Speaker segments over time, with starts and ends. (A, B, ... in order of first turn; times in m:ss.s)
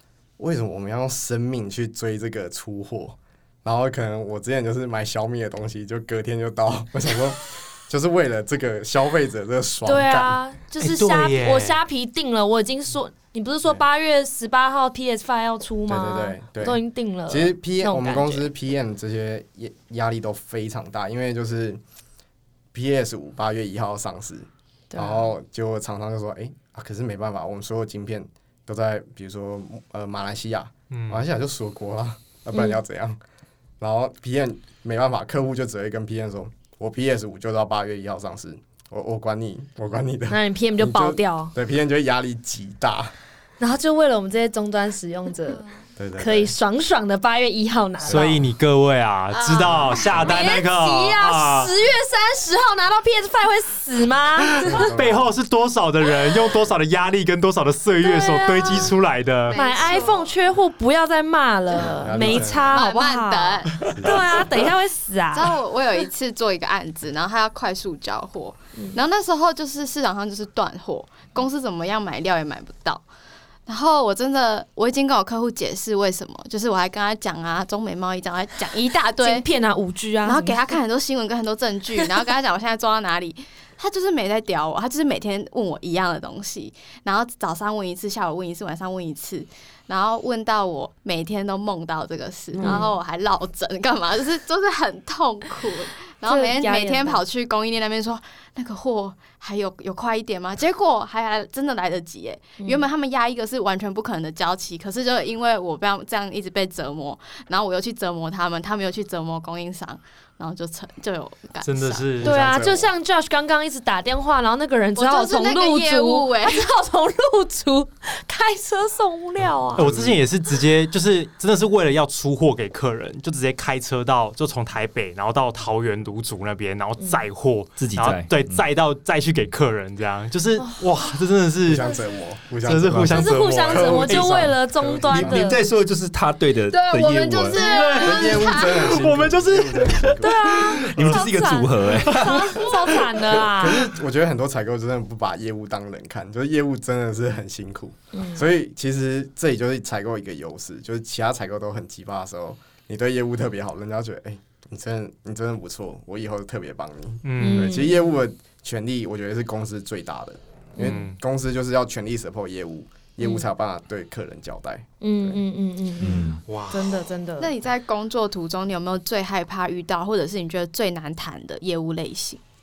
0:00.4-0:10.4 A
0:09.8-0:18.5 B
0:10.8-0:11.8 C
0:15.9-0:21.8 A
0:22.7-0:33.2 A
0:24.9-0:25.3 B
0:30.9-0:31.2 C
0:32.5-0:32.8 B
0:33.8-0:43.1 A
0:40.3-0:41.5 B
0:43.6-0:45.6 B
0:46.0-0:46.5 A
0:46.2-0:48.4 B
0:48.0-0:48.4 A
0:48.1-0:51.7 C
0:49.5-0:50.0 D
0:49.8-0:54.9 B
0:54.6-0:55.4 A
0:54.6-0:59.6 C
0:58.0-0:58.9 B
0:59.5-1:00.3 D
0:59.5-1:05.6 B
1:02.0-1:02.8 A
1:02.1-1:04.0 D
1:03.8-1:04.5 A
1:05.3-1:13.0 D
1:08.8-1:09.0 B
1:13.7-1:19.5 D
1:19.2-1:20.7 B
1:20.2-1:52.1 D
1:32.5-1:32.9 B
1:36.2-1:37.2 B
1:42.6-1:42.9 B
1:51.6-1:52.3 C
1:52.2-1:52.9 A
1:52.2-1:59.9 B
1:55.0-1:56.6 D
1:59.7-2:00.2 A
1:59.8-2:11.9 C
2:07.8-2:08.6 E
2:11.6-2:15.4 A
2:12.6-2:14.5 C
2:13.1-2:15.6 B
2:15.1-2:17.6 E
2:16.7-2:18.9 D
2:17.5-2:21.2 C
2:18.0-2:20.5 A
2:20.2-2:23.9 B
2:20.7-2:22.7 E
2:22.0-2:23.3 C
2:23.4-2:45.4 A
2:28.1-2:28.5 B
2:37.2-2:37.7 C
2:37.4-2:38.0 B
2:40.8-2:41.0 B
2:40.8-2:41.2 C
2:43.2-2:43.5 B
2:45.0-2:47.5 B
2:46.0-2:46.4 E
2:46.5-2:47.0 C
2:47.4-2:52.4 D